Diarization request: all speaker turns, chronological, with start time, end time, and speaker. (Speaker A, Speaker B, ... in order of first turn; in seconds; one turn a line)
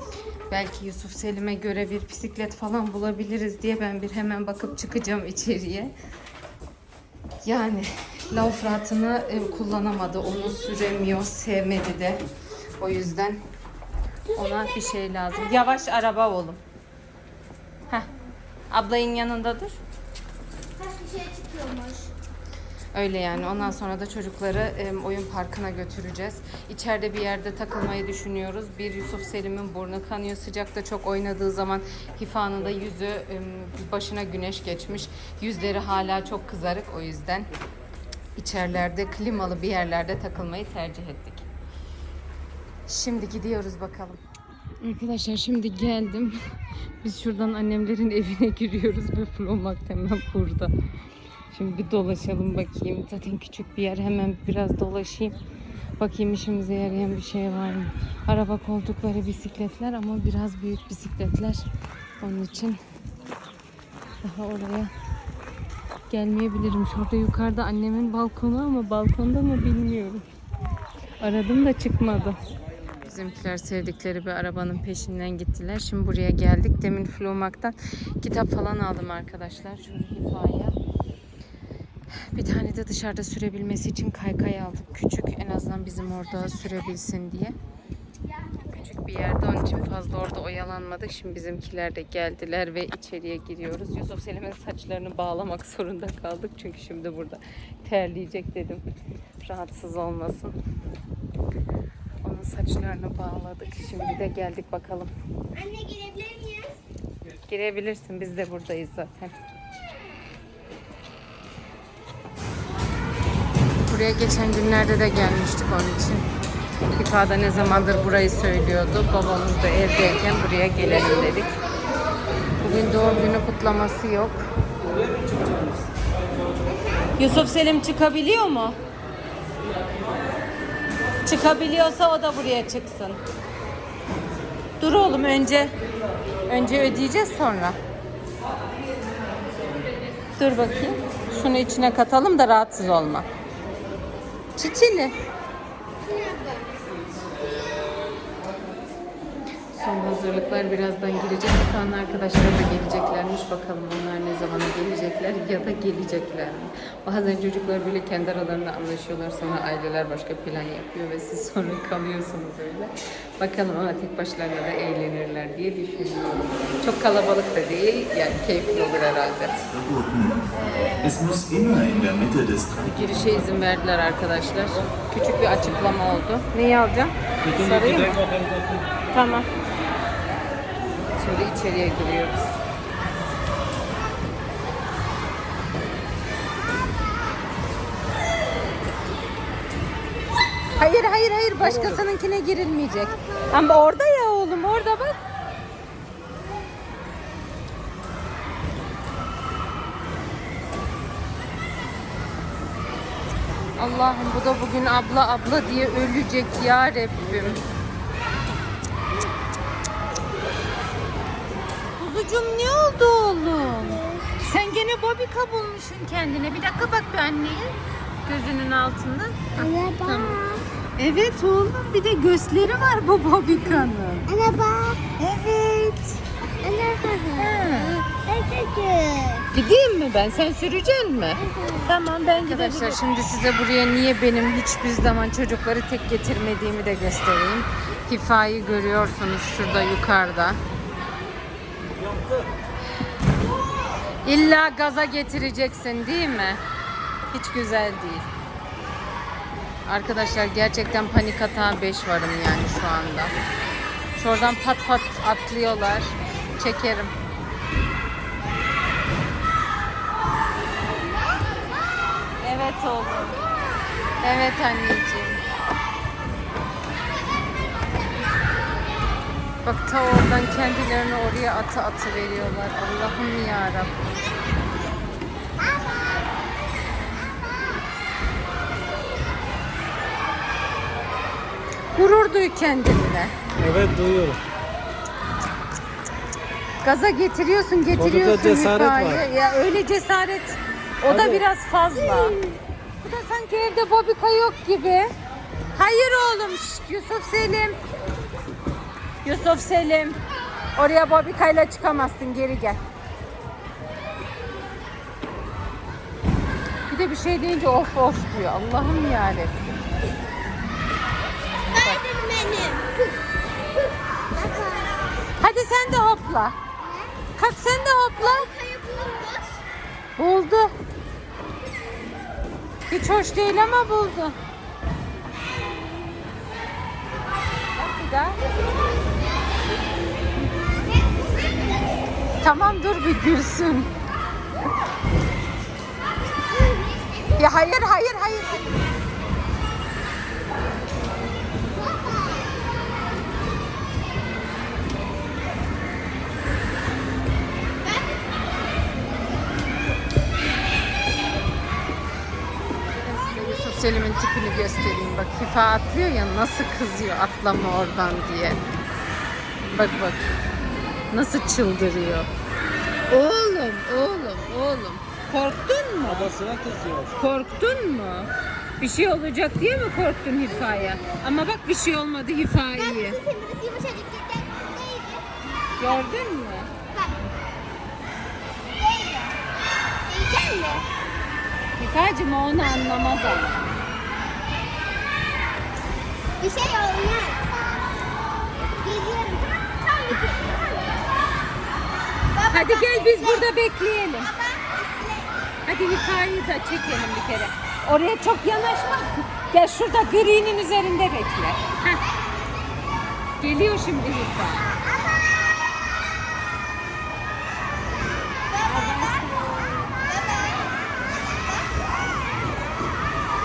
Speaker A: 0.5-5.9
Speaker A: 7.4-12.2
Speaker A: 12.8-13.4
Speaker A: 14.3-16.6
Speaker A: 18.7-19.8
Speaker B: 20.8-22.1
Speaker A: 22.9-37.5
Speaker A: 38.4-41.5
Speaker A: 42.9-44.2
Speaker A: 44.8-46.4
Speaker A: 47.0-50.7
Speaker A: 51.5-55.4
Speaker A: 56.0-61.6
Speaker A: 62.2-62.8
Speaker A: 64.2-64.9
Speaker A: 66.1-70.2
Speaker A: 71.2-72.4
Speaker A: 73.0-80.7
Speaker A: 82.1-87.5
Speaker A: 88.6-98.8
Speaker A: 99.4-100.5
Speaker A: 102.2-105.1
Speaker B: 105.5-106.8
Speaker A: 107.5-109.3
Speaker A: 113.9-116.2
Speaker A: 116.9-121.5
Speaker A: 122.6-124.5
Speaker C: 125.1-125.7
Speaker A: 127.2-128.8
Speaker A: 131.2-133.2
Speaker A: 134.8-135.7
Speaker A: 136.5-137.8
Speaker A: 140.4-143.2
Speaker A: 144.6-145.1
Speaker B: 146.0-147.2
Speaker A: 149.7-169.7
Speaker D: 169.7-170.4
Speaker A: 170.5-171.6
Speaker D: 171.0-173.3
Speaker A: 172.8-178.2
Speaker C: 177.4-178.9
Speaker A: 179.1-179.5
Speaker A: 181.2-182.5
Speaker A: 190.8-195.2
Speaker C: 191.6-192.0
Speaker B: 193.0-193.6
Speaker A: 203.8-207.6
Speaker A: 212.0-220.4
Speaker B: 213.8-214.3
Speaker B: 219.6-220.6
Speaker A: 221.0-224.3
Speaker B: 224.3-225.1
Speaker A: 225.2-226.2
Speaker B: 226.6-229.4
Speaker A: 227.4-228.0
Speaker A: 229.5-240.6
Speaker B: 231.4-233.0
Speaker C: 241.9-242.5
Speaker A: 244.2-246.6
Speaker A: 247.3-248.3
Speaker A: 249.8-253.3
Speaker A: 254.2-257.1
Speaker A: 262.4-263.4
Speaker A: 264.2-265.4
Speaker A: 269.6-273.9
Speaker B: 274.2-274.9
Speaker B: 275.6-276.3
Speaker A: 281.9-283.3
Speaker C: 283.6-284.4
Speaker A: 286.8-292.4
Speaker C: 287.9-289.2
Speaker C: 291.1-291.4
Speaker A: 293.0-295.1
Speaker A: 295.7-297.8
Speaker A: 299.2-300.2
Speaker A: 300.8-302.8
Speaker A: 306.9-309.7
Speaker B: 311.7-313.2
Speaker B: 313.8-315.3
Speaker A: 315.4-316.6
Speaker B: 316.8-317.1
Speaker A: 317.4-318.5
Speaker B: 318.2-319.6
Speaker A: 320.2-320.7
Speaker A: 322.9-324.4
Speaker B: 325.8-326.1
Speaker A: 327.7-328.4
Speaker B: 330.8-332.1
Speaker A: 332.4-333.9
Speaker B: 336.4-337.5
Speaker A: 337.4-338.7
Speaker B: 341.7-342.7
Speaker B: 347.8-348.5
Speaker A: 353.0-358.6
Speaker A: 359.7-360.3
Speaker A: 361.1-362.3
Speaker A: 363.1-366.3
Speaker C: 366.0-367.1
Speaker A: 367.1-373.2
Speaker B: 370.8-371.1
Speaker B: 372.7-376.0
Speaker A: 375.8-376.7
Speaker B: 376.9-377.3
Speaker B: 378.7-379.4
Speaker B: 380.0-380.9
Speaker A: 381.8-383.7
Speaker B: 386.4-387.9
Speaker B: 388.8-391.0
Speaker B: 392.3-393.5
Speaker A: 392.5-394.3
Speaker B: 394.2-395.4
Speaker A: 395.6-402.0
Speaker A: 403.4-404.7
Speaker B: 408.5-409.2
Speaker A: 408.6-409.9
Speaker B: 409.9-410.9